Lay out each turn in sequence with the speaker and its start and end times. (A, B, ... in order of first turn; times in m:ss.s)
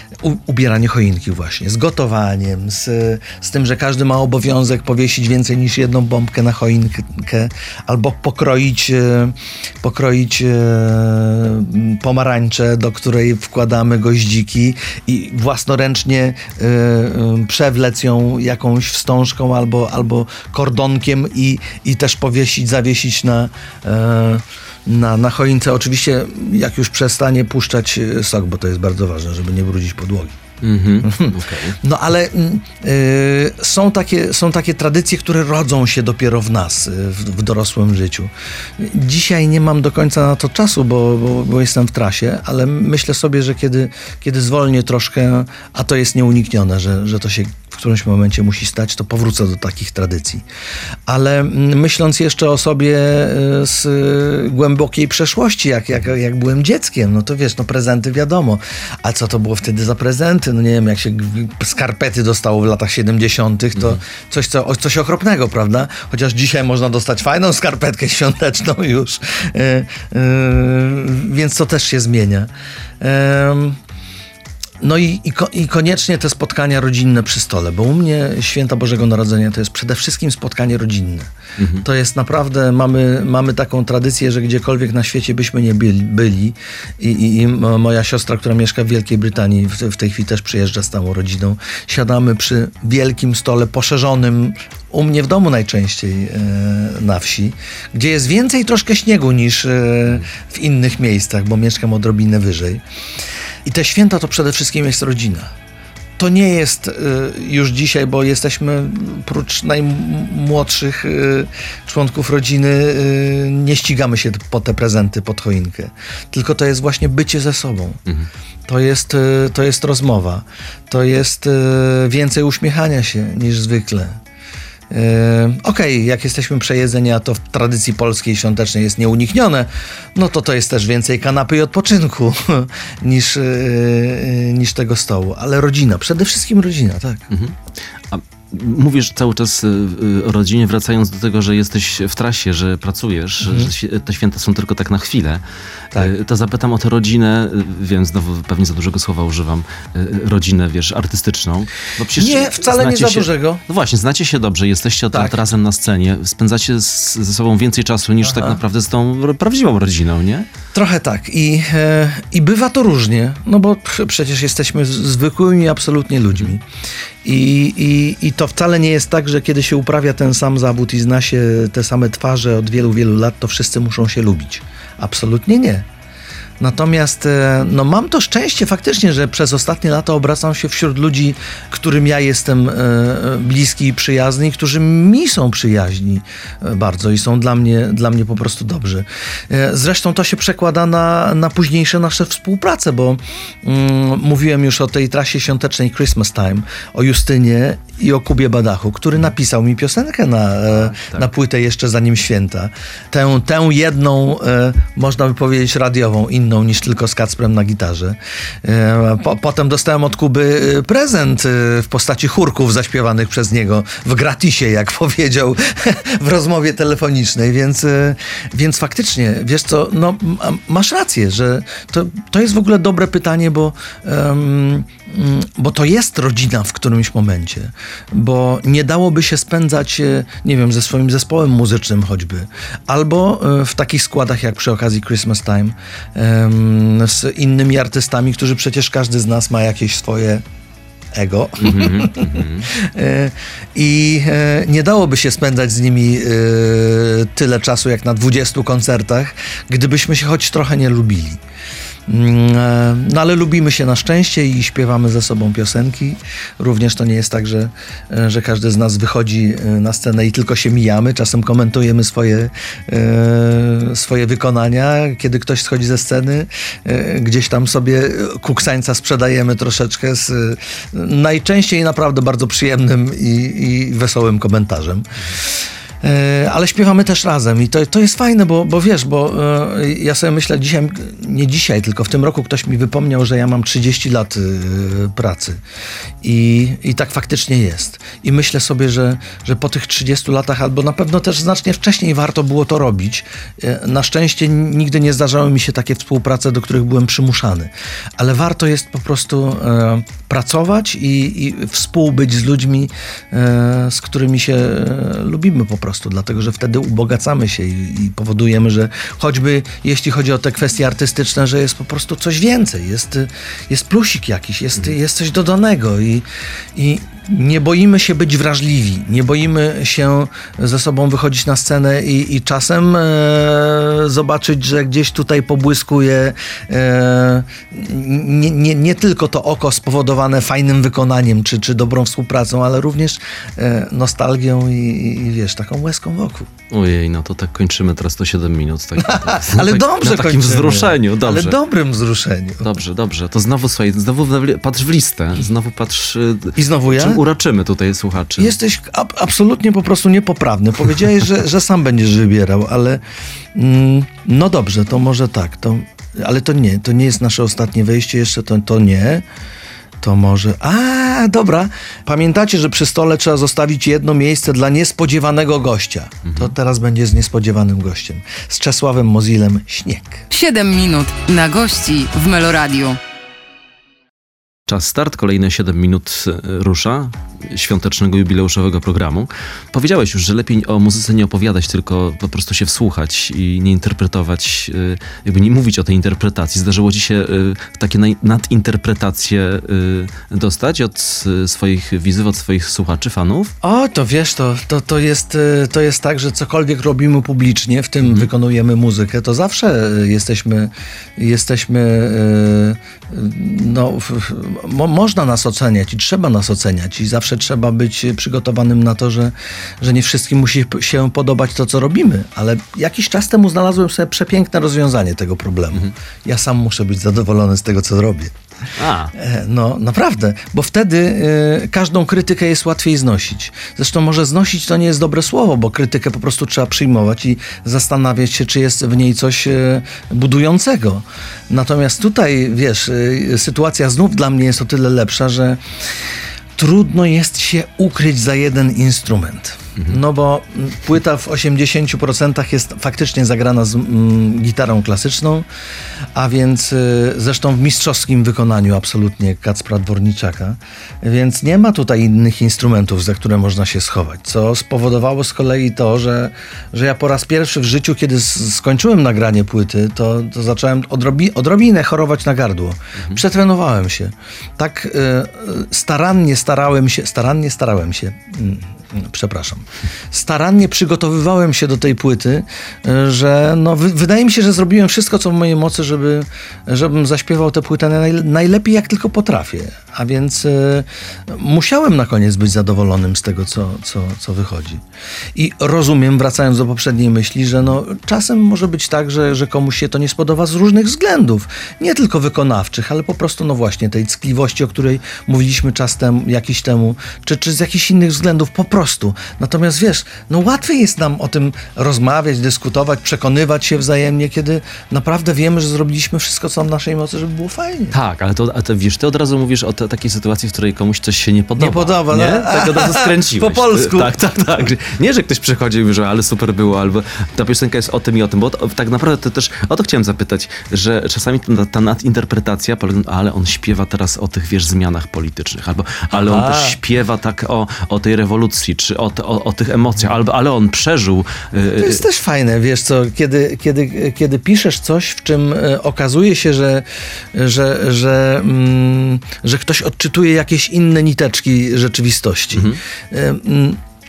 0:00.2-0:30.4 A
0:30.6-0:31.8 B
0:31.0-0:50.4 A
0:51.1-1:13.8 A
1:14.8-1:21.3 A
1:21.6-1:21.8 B
1:21.8-1:42.8 A
1:43.6-1:45.5 A
1:46.2-1:58.0 A
1:58.7-2:04.2 A
2:04.9-2:17.2 A
2:17.3-2:17.6 B
2:18.1-2:40.5 B
2:23.4-2:23.7 A
2:32.2-2:33.6 A
2:35.1-2:35.4 A
2:38.2-2:38.6 A
2:40.7-2:46.6 A
2:47.2-2:55.8 A
2:56.6-4:00.4 A
3:20.7-3:21.3 B
4:01.1-4:11.4 A
4:01.6-4:02.7 B
4:12.1-4:45.6 A
4:46.2-5:36.5 A
5:36.7-5:41.6 B
5:39.0-5:42.7 A
5:42.6-5:48.6 B
5:46.6-5:47.2 A
5:48.4-5:53.0 A
5:53.5-5:59.2 A
6:00.0-6:10.2 A
6:06.2-6:06.5 B
6:10.3-6:13.0 C
6:14.7-6:33.5 B
6:33.6-6:58.3 A
6:38.0-6:38.3 B
6:58.8-6:59.1 B
6:59.1-7:25.4 A
7:26.1-8:04.8 A
8:05.3-8:28.0 A
8:27.9-8:52.0 B
8:31.6-8:34.2 A
8:46.1-8:46.8 A
8:51.7-9:03.8 A
9:02.5-9:02.8 B